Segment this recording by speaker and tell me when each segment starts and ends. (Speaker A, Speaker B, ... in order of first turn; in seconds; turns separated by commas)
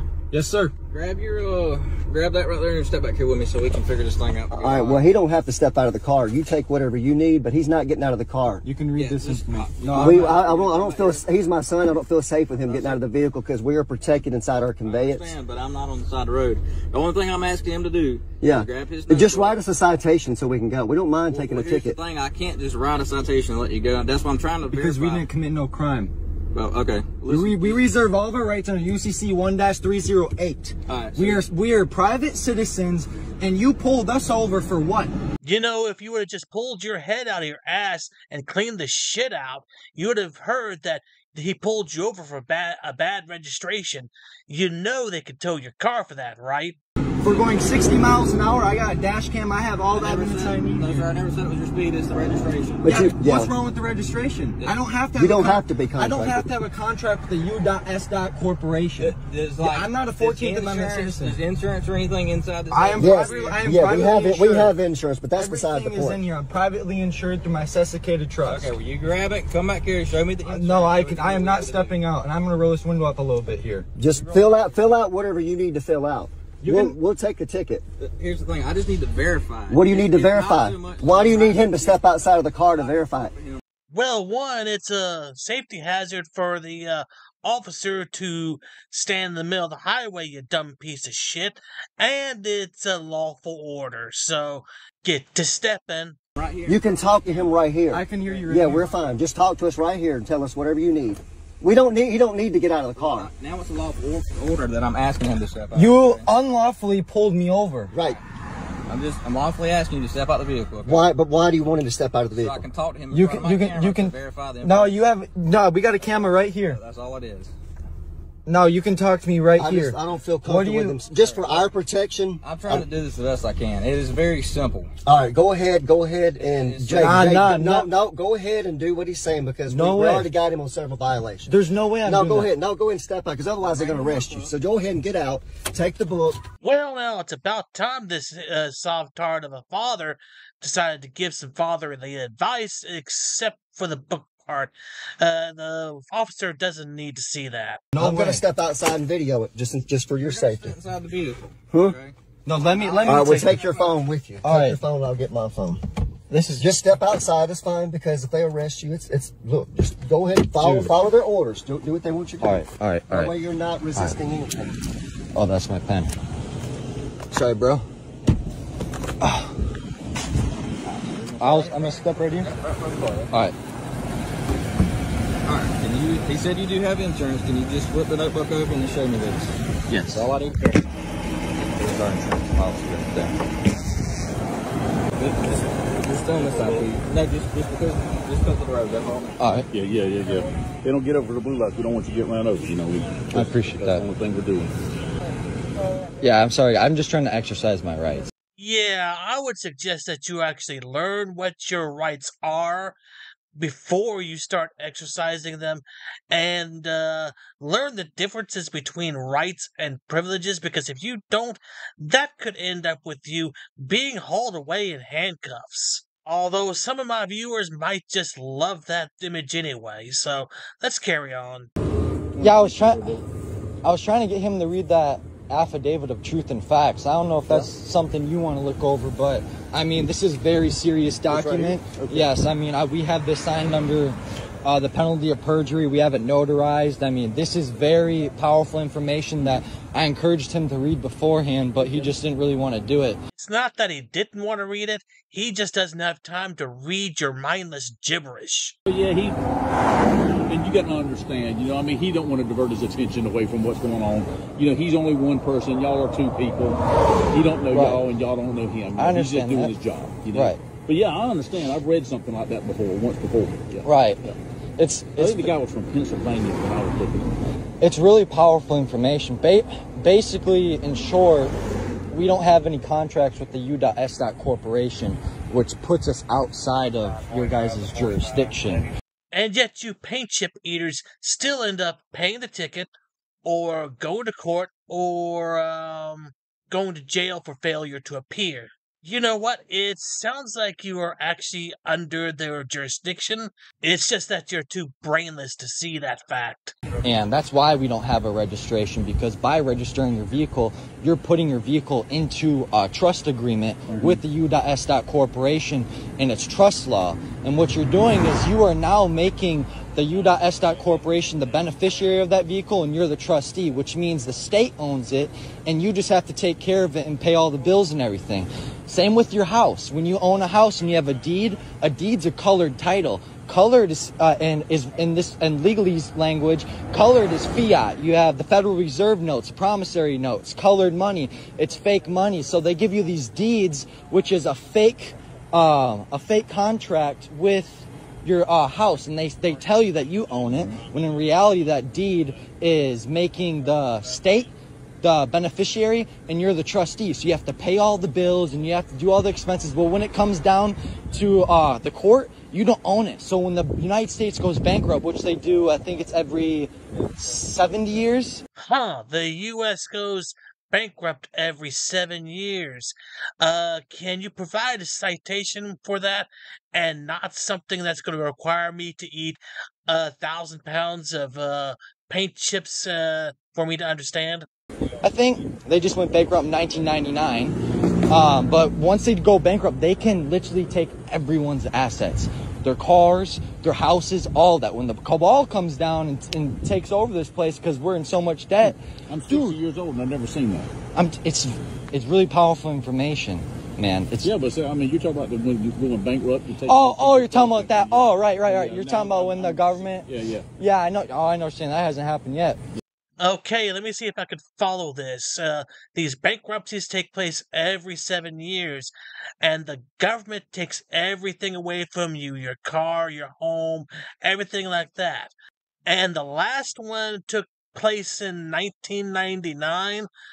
Speaker A: 0.3-0.7, Speaker B: 0.9-5.0, Speaker C: 4.5-8.6, Speaker A: 8.6-10.3, Speaker B: 8.9-11.3, Speaker C: 10.0-15.3, Speaker B: 12.7-13.0, Speaker B: 14.8-19.6, Speaker C: 18.4-22.0, Speaker B: 21.3-25.2, Speaker A: 24.7-26.1, Speaker B: 26.5-27.9, Speaker A: 27.3-35.1, Speaker B: 30.9-31.4, Speaker D: 35.4-46.8, Speaker A: 47.2-51.1, Speaker B: 49.9-53.1, Speaker C: 52.8-53.5, Speaker A: 52.8-61.4, Speaker C: 55.2-56.5, Speaker B: 59.0-63.7, Speaker A: 62.7-64.7, Speaker C: 63.0-66.2, Speaker A: 65.3-68.7, Speaker B: 68.4-72.0, Speaker A: 70.4-73.9, Speaker C: 74.0-77.8, Speaker B: 74.1-74.7, Speaker A: 76.6-77.0, Speaker B: 78.0-82.0, Speaker C: 79.7-83.3, Speaker B: 82.8-83.6, Speaker D: 83.9-96.2, Speaker B: 96.3-97.5, Speaker C: 96.7-103.3, Speaker A: 97.9-99.0, Speaker B: 103.0-106.3, Speaker A: 105.7-107.9, Speaker C: 107.9-108.2, Speaker B: 108.9-111.0, Speaker C: 110.8-112.7, Speaker B: 112.3-115.0, Speaker A: 113.1-116.8, Speaker B: 116.6-117.5, Speaker A: 118.5-121.0, Speaker C: 119.6-122.8, Speaker B: 121.1-121.7, Speaker B: 122.4-124.9, Speaker C: 125.0-131.5, Speaker B: 126.4-127.4, Speaker A: 127.0-127.9, Speaker A: 129.7-130.3, Speaker A: 131.4-132.5, Speaker C: 132.0-136.4, Speaker B: 133.6-134.5, Speaker D: 136.6-147.8, Speaker A: 147.9-148.4, Speaker C: 147.9-150.7, Speaker B: 150.2-152.2, Speaker C: 151.7-152.0, Speaker A: 152.4-153.6, Speaker C: 153.0-155.8, Speaker A: 154.4-154.8, Speaker A: 156.3-156.7, Speaker C: 156.6-164.7, Speaker A: 160.6-161.0, Speaker A: 162.4-163.3, Speaker A: 165.3-166.1, Speaker A: 167.3-167.8, Speaker A: 169.2-169.5, Speaker B: 170.8-173.3, Speaker A: 171.4-172.5, Speaker B: 175.4-179.6, Speaker A: 179.9-180.3, Speaker B: 180.1-180.7, Speaker A: 181.6-183.3, Speaker B: 185.2-189.4, Speaker A: 189.4-189.7, Speaker E: 189.7-194.7, Speaker A: 193.3-194.0, Speaker A: 196.2-198.3, Speaker D: 198.6-202.9, Speaker D: 203.6-221.7, Speaker A: 222.4-223.2, Speaker E: 222.4-222.6, Speaker A: 223.8-243.2, Speaker D: 243.3-248.8, Speaker E: 248.9-249.4, Speaker E: 250.5-256.8, Speaker E: 257.3-264.3, Speaker A: 257.7-258.0, Speaker A: 258.9-259.8, Speaker A: 260.3-260.6, Speaker A: 263.8-265.5, Speaker E: 265.2-267.3, Speaker A: 267.8-271.5, Speaker A: 272.1-278.9, Speaker D: 279.3-282.9, Speaker D: 283.4-296.7, Speaker A: 297.0-344.5, Speaker A: 345.0-358.4, Speaker D: 358.6-374.4, Speaker A: 375.0-377.6, Speaker A: 378.1-389.6, Speaker E: 389.1-390.7, Speaker A: 390.9-394.3, Speaker E: 394.2-400.4, Speaker A: 396.6-402.6, Speaker D: 403.2-415.3, Speaker D: 415.9-420.1